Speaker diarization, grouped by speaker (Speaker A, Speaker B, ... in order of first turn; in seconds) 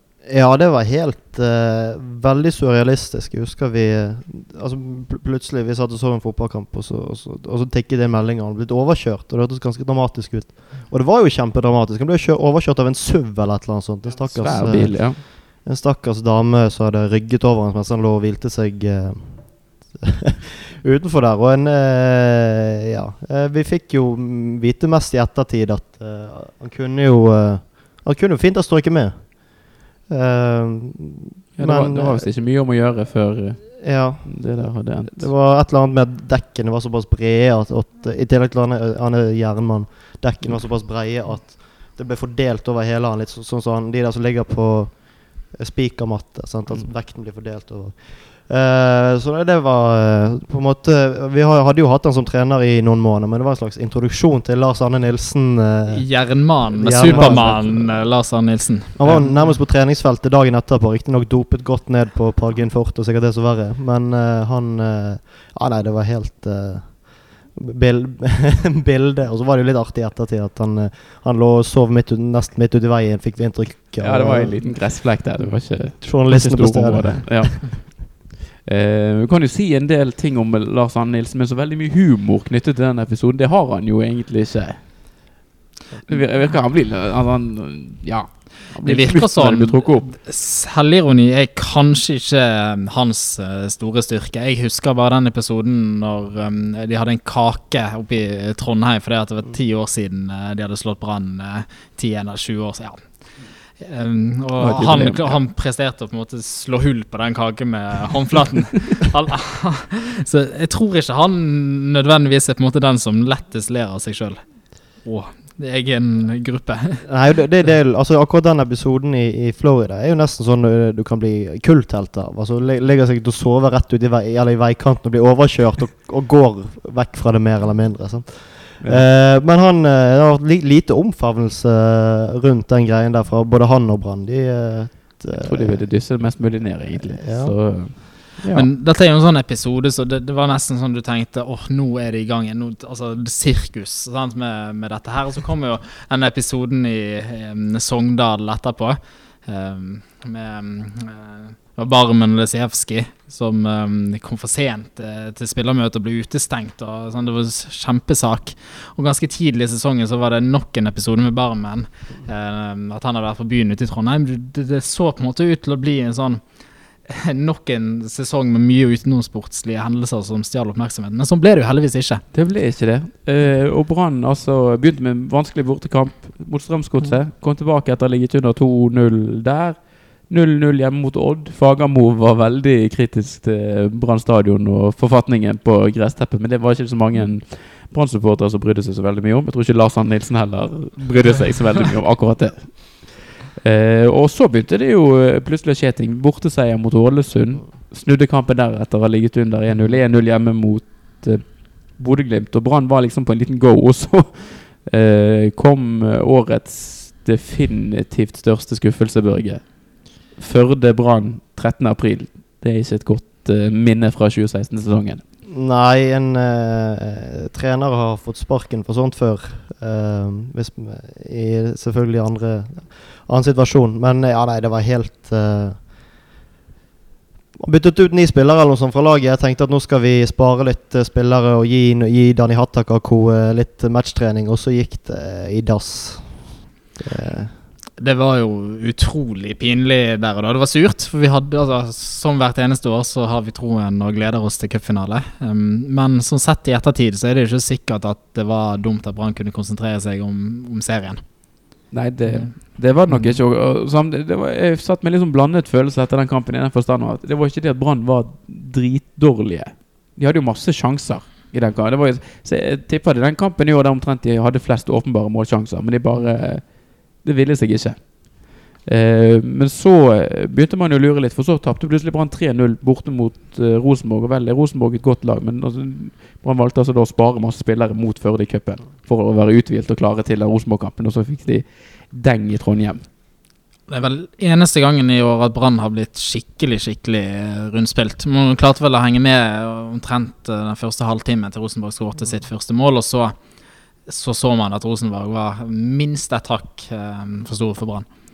Speaker A: 0.2-32.3, 33.8-58.0, 58.9-74.9, 75.7-77.7, 117.0-135.9, 136.9-138.0, 215.5-225.9, 227.6-237.6
Speaker B: 14.3-15.2, 31.5-35.3, 57.1-57.6, 74.0-85.2, 86.0-90.1, 104.6-105.4, 128.8-129.1, 135.3-138.7, 172.3-215.2, 251.9-283.0
Speaker C: 55.9-59.4, 88.8-117.0, 138.5-172.2, 238.0-251.2, 252.2-253.4, 283.9-298.1